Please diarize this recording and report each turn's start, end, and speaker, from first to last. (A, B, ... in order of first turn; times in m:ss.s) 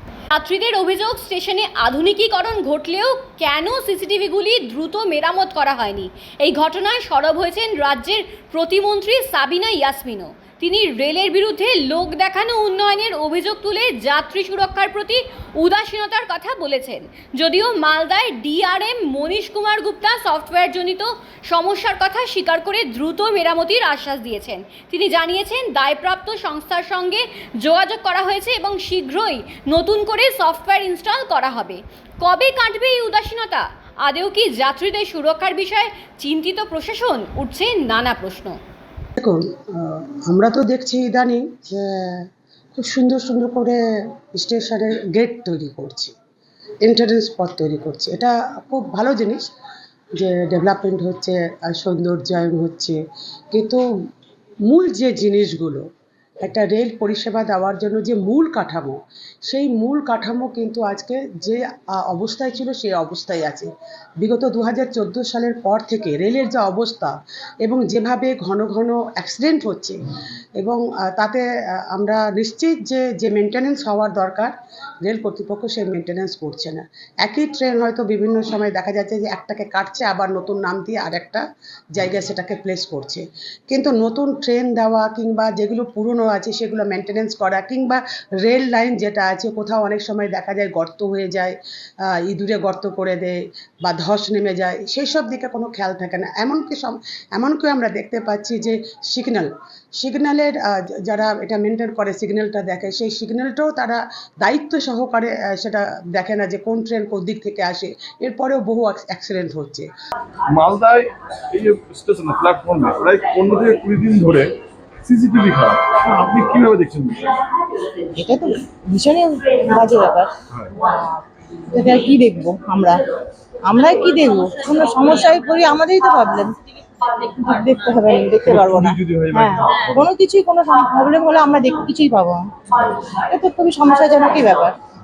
0:00.3-0:38.6 A
0:39.2-0:42.2 B
0:42.7-0:43.8 B
0:44.4-0:46.1 B
0:46.8-0:49.5 B
0:50.2-0:53.0 B
0:53.5-0:53.8 B
0:54.7-0:55.8 B
0:56.4-1:03.7 B
1:04.2-1:10.0 B
1:10.6-1:31.6 B
1:32.1-1:49.9 B
1:50.5-1:57.3 C
1:58.1-2:03.0 D
2:03.6-2:12.5 D
2:08.5-2:10.0 C
2:13.0-2:14.8 D